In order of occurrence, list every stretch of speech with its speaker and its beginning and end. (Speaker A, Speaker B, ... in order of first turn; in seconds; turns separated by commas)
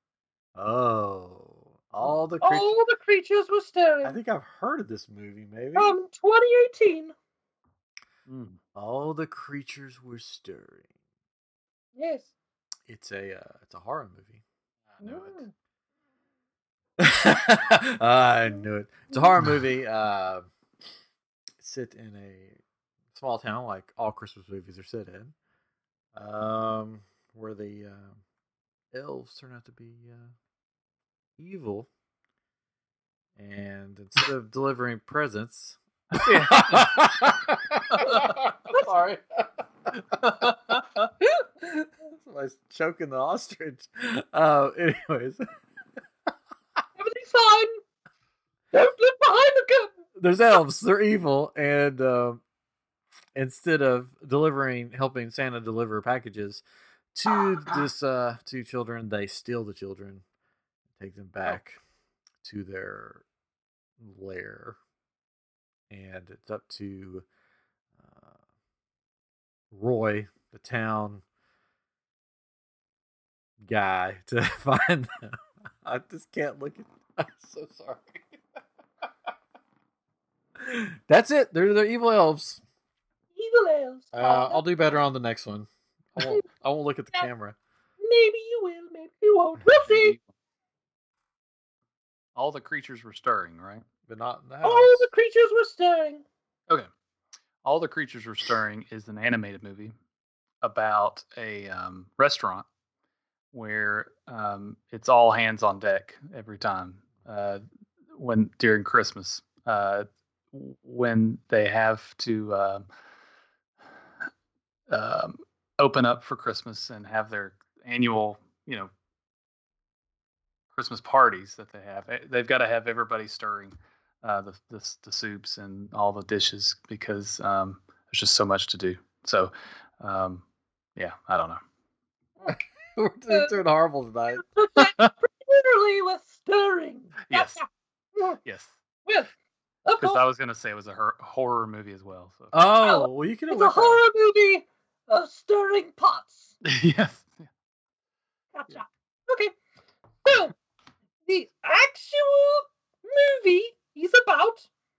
Speaker A: 0.6-2.7, Speaker B: 2.4-4.2, Speaker A: 4.0-5.9, Speaker B: 5.7-7.1, Speaker C: 8.3-8.6, Speaker A: 8.7-10.9, Speaker B: 11.9-12.3, Speaker A: 12.9-14.4, Speaker C: 14.9-15.4, Speaker B: 15.0-15.5, Speaker A: 17.0-20.5, Speaker A: 21.6-22.6, Speaker A: 23.1-25.3, Speaker A: 26.1-28.2, Speaker A: 28.9-30.3, Speaker A: 31.4-31.9, Speaker A: 33.4-40.3, Speaker C: 36.1-37.1, Speaker C: 37.9-38.3, Speaker C: 40.2-41.1, Speaker A: 41.6-45.5, Speaker B: 47.0-47.8, Speaker B: 48.7-49.9, Speaker A: 50.1-52.4, Speaker A: 53.3-56.6, Speaker A: 57.1-60.2, Speaker A: 61.0-61.8, Speaker A: 62.4-63.2, Speaker A: 64.0-64.8, Speaker A: 65.9-67.2, Speaker A: 68.0-68.4, Speaker A: 69.7-71.2, Speaker A: 73.6-78.2, Speaker A: 80.6-82.6, Speaker B: 83.3-84.6, Speaker A: 84.1-87.5, Speaker B: 88.0-90.2, Speaker C: 89.8-90.2, Speaker C: 92.3-93.8, Speaker A: 94.1-95.1, Speaker B: 94.6-96.2, Speaker C: 97.6-99.9, Speaker C: 100.6-102.6, Speaker C: 103.5-107.6, Speaker C: 108.1-112.8, Speaker C: 114.9-118.9, Speaker C: 120.7-130.4, Speaker C: 130.9-131.6, Speaker A: 132.5-134.4, Speaker B: 133.3-133.6, Speaker B: 134.3-137.6, Speaker C: 134.8-135.1, Speaker C: 137.3-137.6, Speaker C: 138.4-138.8, Speaker B: 139.0-139.3, Speaker B: 139.8-140.2, Speaker C: 140.0-142.5, Speaker A: 142.5-144.0, Speaker B: 142.7-146.5, Speaker C: 146.6-147.5, Speaker B: 148.5-149.5, Speaker B: 150.2-150.5, Speaker B: 151.2-154.7